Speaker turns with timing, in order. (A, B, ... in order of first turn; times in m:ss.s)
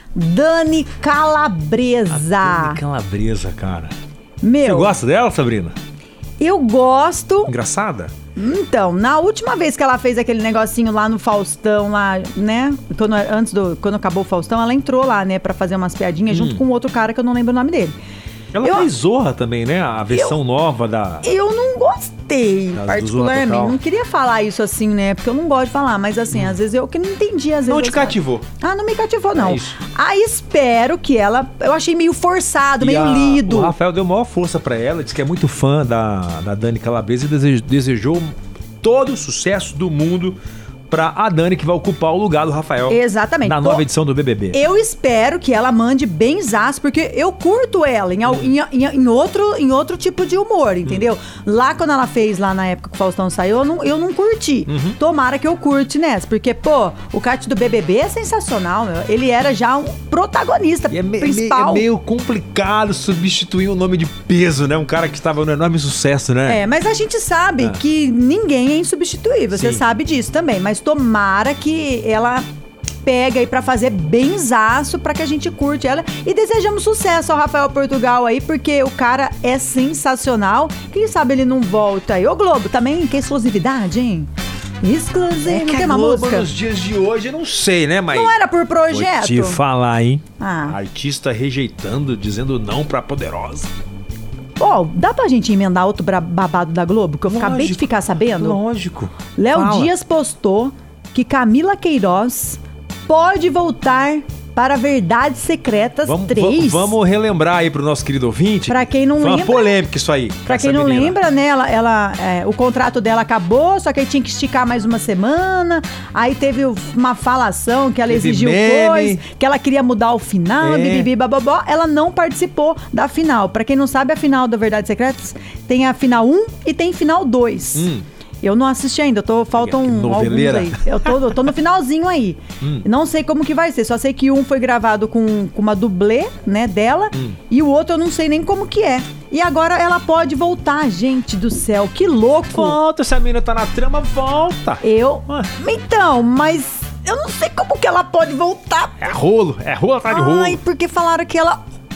0:00.2-0:02.8 A
0:02.1-0:03.9 B
0:04.4-0:05.0 A
0:04.6-0:05.8 B
0:06.4-0:07.5 A
0:07.5-0:08.1 B
0:08.4-0:18.0 A
0:16.3-0:16.6 B
0:18.5-0:21.3 B
0:18.6-0:18.9 A
0:20.1-0:20.4 A
0:21.2-0:33.7 A
0:22.7-0:23.8 B
0:27.7-0:28.5 B
0:29.4-0:29.8 B
0:32.8-0:40.4 B
0:40.9-0:44.6 B
0:42.9-0:43.8 A
0:44.5-1:01.9 A
0:54.7-0:55.0 B
1:00.9-1:06.6 B
1:06.5-1:12.4 A
1:09.5-1:09.8 B
1:13.0-1:24.3 A
1:24.8-1:26.5 A
1:25.4-1:28.4 B
1:28.1-1:29.6 A
1:28.9-1:33.7 B
1:30.4-1:30.8 A
1:34.6-1:38.6 A
1:37.3-1:39.9 B
1:39.4-1:47.0 A
1:46.0-1:51.2 B
1:48.7-1:49.8 A
1:50.5-2:07.9 A
1:58.1-1:59.2 B
2:00.6-2:01.1 B
2:07.8-2:08.0 B
2:08.4-2:22.8 A
2:09.6-2:11.4 B
2:22.5-2:25.5 B
2:24.8-2:29.1 A
2:29.0-2:30.6 B
2:30.1-2:31.6 A